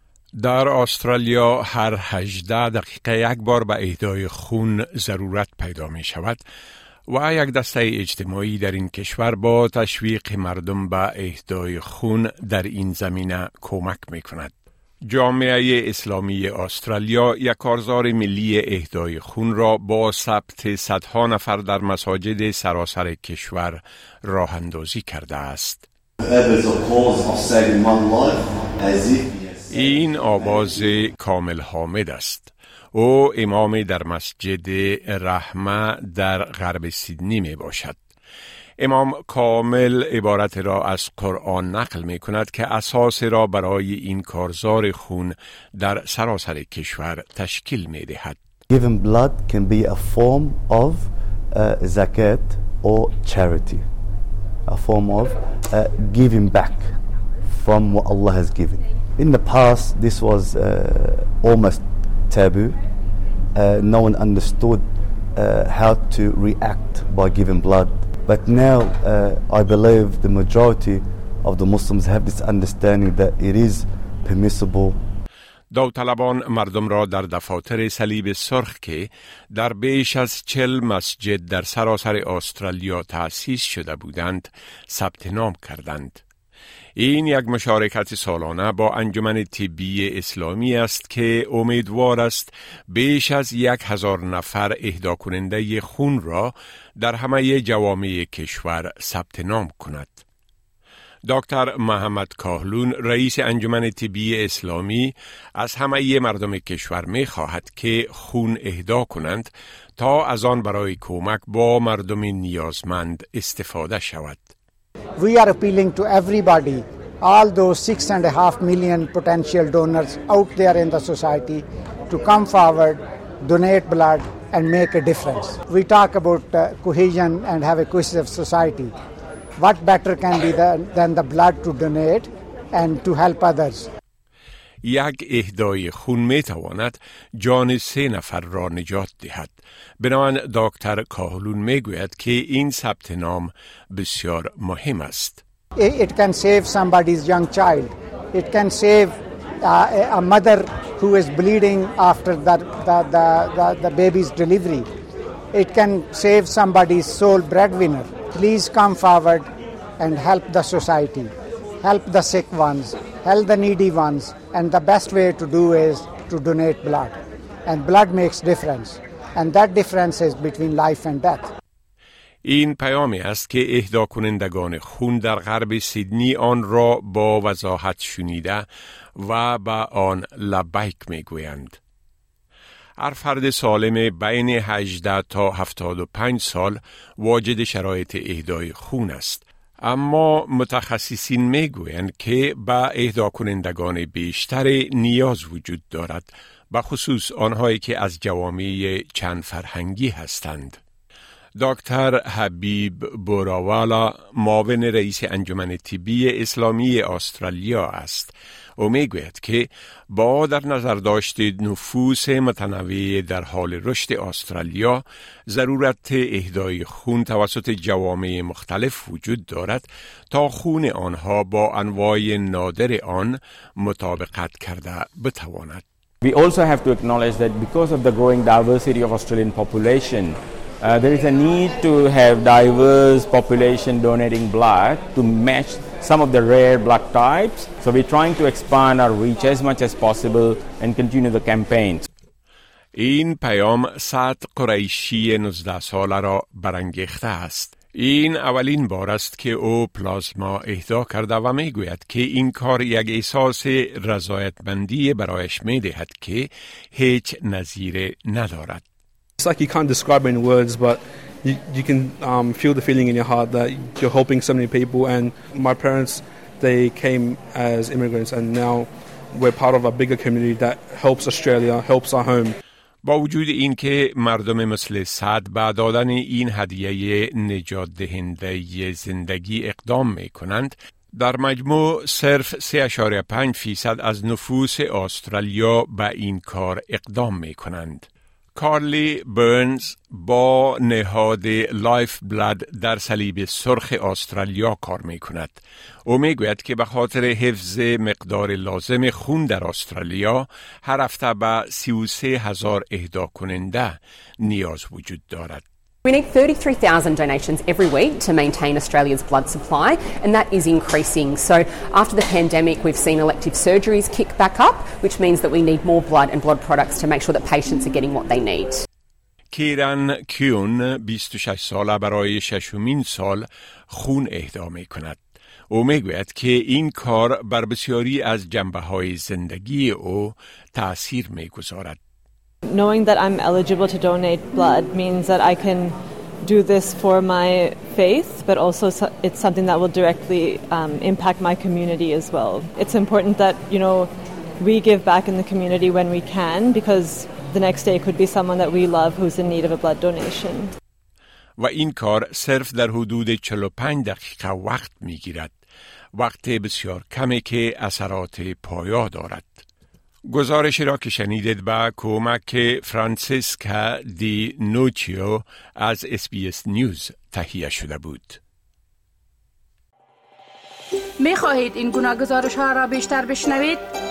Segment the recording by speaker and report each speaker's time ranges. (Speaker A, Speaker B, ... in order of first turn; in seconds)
Speaker A: 0.4-6.4, 7.1-14.5, 15.1-25.8, 29.7-38.0, 38.8-48.4, 75.7-86.2, 87.0-100.2, 101.2-114.5, 134.8-145.4, 172.4-178.7, 179.2-181.8, 183.0-200.8, 201.6-225.8, 242.9-258.8, 273.0-305.6, 319.5-332.0, 351.6-355.6, 356.1-359.6, 360.3-368.4
Speaker B: 26.2-30.9, 48.7-53.8, 54.6-57.0, 57.5-62.8, 63.5-75.0
Speaker C: 115.2-128.9, 129.6-133.9, 145.8-154.8, 155.5-159.4, 160.0-161.3, 161.8-167.1, 167.7-171.5
Speaker D: 226.2-242.0
Speaker E: 259.4-272.5
Speaker F: 306.0-318.8
Speaker G: 332.7-350.7
Speaker H: 371.2-373.9